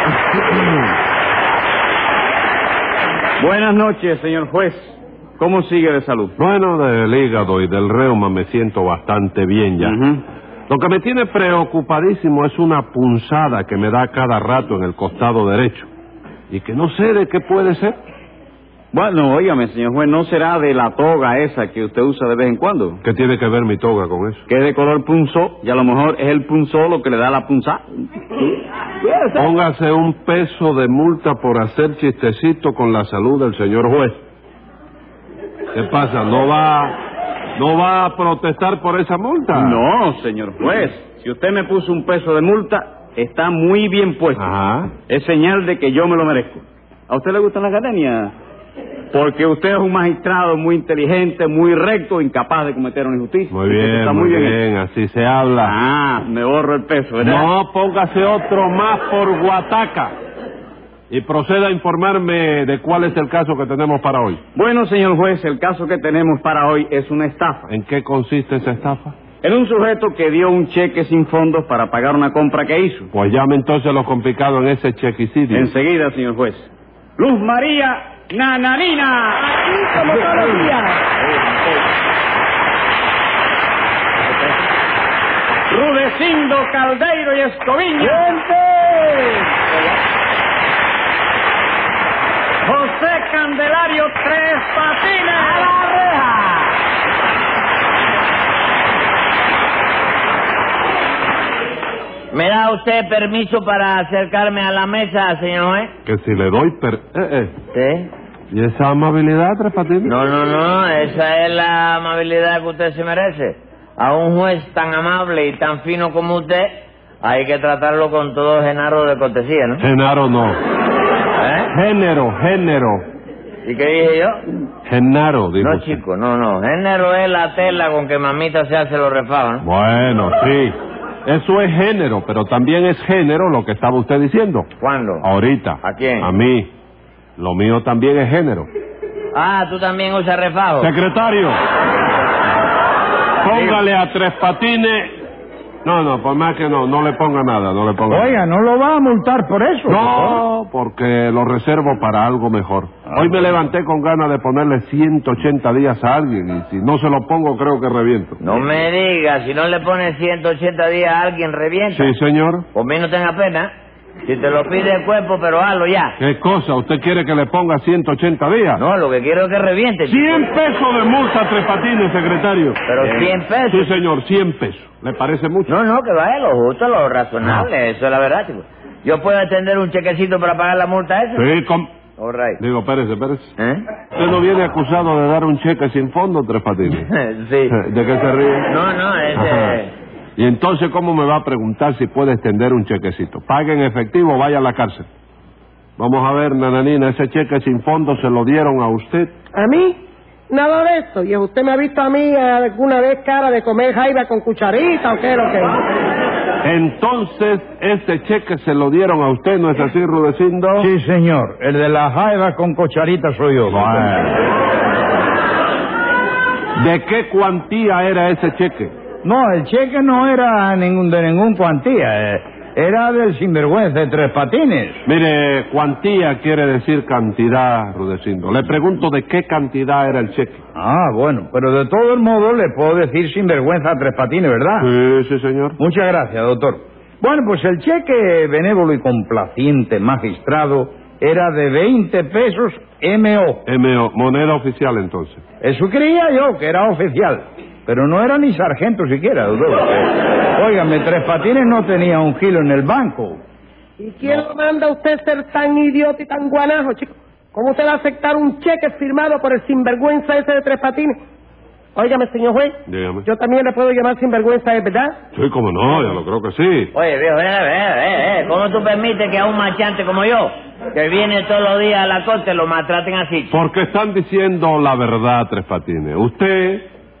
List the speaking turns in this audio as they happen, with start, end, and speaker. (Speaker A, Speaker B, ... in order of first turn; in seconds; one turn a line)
Speaker A: 3.4-6.3
Speaker B: 6.4-10.0
Speaker A: 9.8-10.2
Speaker B: 10.7-15.9
Speaker B: 16.5-18.0
Speaker A: 18.9-23.0
Speaker B: 23.0-24.4
Speaker A: 24.5-29.5
Speaker B: 29.3-34.2
Speaker B: 35.7-37.0
Speaker B: 37.6-39.8
Speaker A: 39.5-44.5
Speaker B: 44.3-44.9
Speaker A: 45.1-48.3
Speaker A: 49.1-54.6
Speaker B: 53.5-55.7
Speaker A: 55.6-57.5
Speaker B: 57.2-60.1
Speaker B: 61.1-64.4
Speaker A: 64.5-67.7
Speaker B: 67.7-69.2
Speaker A: 69.4-73.1
Speaker B: 73.1-75.7
Speaker A: 75.5-79.5
Speaker C: 79.5-81.0
Speaker A: 85.7-88.4
Speaker D: 88.0-90.0
Speaker A: 92.6-95.7
Speaker D: 95.3-96.8
Speaker D: 102.3-105.9
Speaker B: 106.0-107.5
Speaker D: 107.7-108.1
Speaker B: 108.5-110.1
Speaker D: 110.0-119.8
Speaker B: 119.8-120.6
Speaker D: 121.4-121.7
Speaker B: 121.7-123.0
Speaker D: 123.6-124.4
Speaker B: 124.8-126.0
Speaker D: 125.6-129.6
Speaker B: 129.6-134.7
Speaker D: 134.8-135.2
Speaker B: 135.2-136.7
Speaker D: 135.8-136.3
Speaker B: 137.4-138.7
Speaker D: 139.3-140.9
Speaker B: 140.8-141.6
Speaker B: 143.4-145.1
Speaker D: 143.5-143.8
Speaker B: 145.8-148.4
Speaker E: 148.1-150.4
Speaker B: 149.9-158.7
Speaker E: 153.1-153.5
Speaker D: 158.4-162.1
Speaker B: 161.9-162.7
Speaker D: 162.7-163.7
Speaker D: 164.2-166.2
Speaker B: 166.2-168.8
Speaker D: 168.8-170.5
Speaker B: 170.0-175.7
Speaker D: 172.8-173.9
Speaker D: 175.7-181.4
Speaker B: 177.4-177.7
Speaker B: 181.3-181.9
Speaker D: 182.2-182.6
Speaker B: 182.6-183.6
Speaker D: 183.6-183.8
Speaker B: 184.1-187.1
Speaker D: 186.9-187.8
Speaker B: 187.7-188.7
Speaker D: 188.7-189.9
Speaker B: 189.3-189.8
Speaker B: 190.4-195.1
Speaker B: 196.0-199.3
Speaker C: 199.5-200.0
Speaker C: 200.5-205.8
Speaker B: 206.6-210.9
Speaker E: 210.8-214.3
Speaker B: 213.7-214.3
Speaker B: 216.8-218.9
Speaker E: 219.2-225.0
Speaker B: 225.0-230.6
Speaker E: 230.8-234.9
Speaker B: 234.8-235.8
Speaker E: 235.8-243.6
Speaker B: 243.7-245.4
Speaker E: 245.6-253.4
Speaker C: 254.0-261.2
Speaker C: 261.9-265.1
Speaker B: 262.9-263.2
Speaker B: 265.3-266.9
Speaker D: 266.9-273.6
Speaker B: 273.5-276.9